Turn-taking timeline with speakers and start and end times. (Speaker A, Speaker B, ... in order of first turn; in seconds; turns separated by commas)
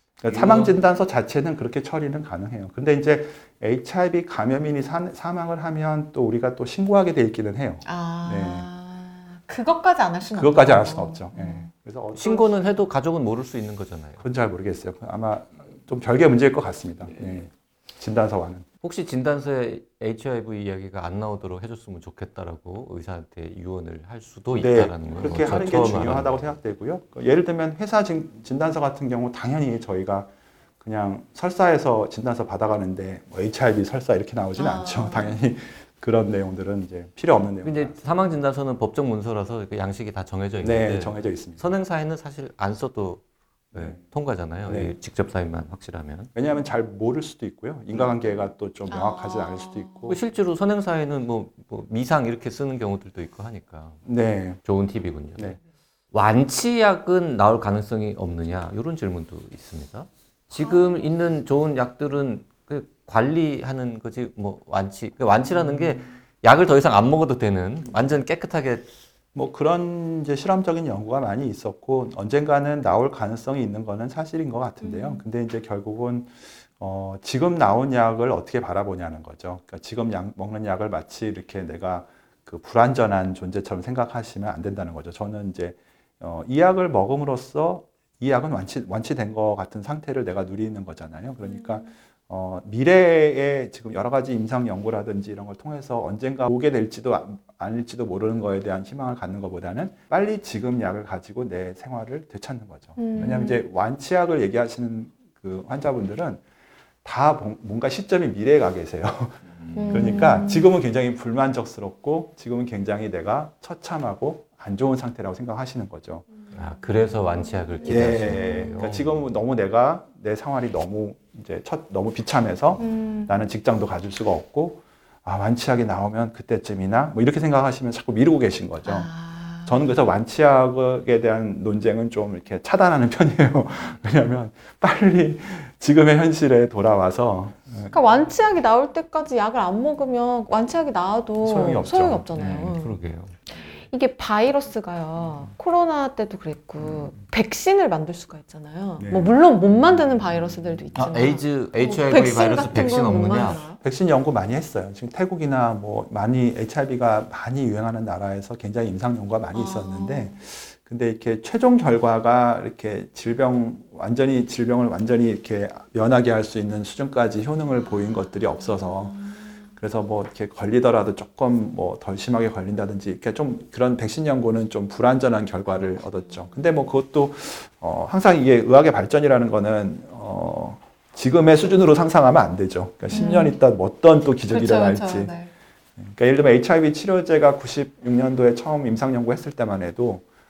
Speaker A: 0.2-8.7, Speaker B: 0.3-0.7, Speaker C: 7.8-11.7, Speaker A: 10.3-12.6, Speaker B: 12.1-14.2, Speaker A: 14.2-18.6, Speaker B: 18.8-26.5, Speaker A: 24.5-30.3, Speaker A: 30.8-38.0, Speaker C: 34.5-35.4, Speaker B: 37.6-43.2, Speaker A: 40.6-41.6, Speaker B: 43.7-46.3, Speaker A: 44.7-45.0, Speaker A: 46.3-50.2, Speaker C: 48.9-50.1, Speaker B: 50.1-54.0, Speaker A: 54.0-54.6, Speaker B: 54.6-55.6, Speaker B: 56.1-68.9, Speaker A: 69.3-106.4, Speaker C: 74.8-75.2, Speaker C: 103.0-103.6, Speaker A: 107.0-116.2, Speaker B: 109.7-110.1, Speaker C: 109.8-110.7, Speaker B: 116.5-119.2, Speaker A: 117.8-129.1, Speaker C: 117.9-118.8, Speaker C: 122.8-123.3, Speaker C: 128.8-129.8, Speaker A: 129.6-137.9, Speaker C: 137.9-142.9, Speaker A: 141.4-142.3, Speaker B: 142.3-143.3, Speaker C: 143.8-153.8, Speaker A: 149.0-149.4, Speaker B: 150.9-153.6, Speaker A: 153.8-185.3, Speaker C: 159.5-160.3, Speaker C: 183.1-183.6, Speaker C: 184.5-185.5, Speaker A: 186.0-190.2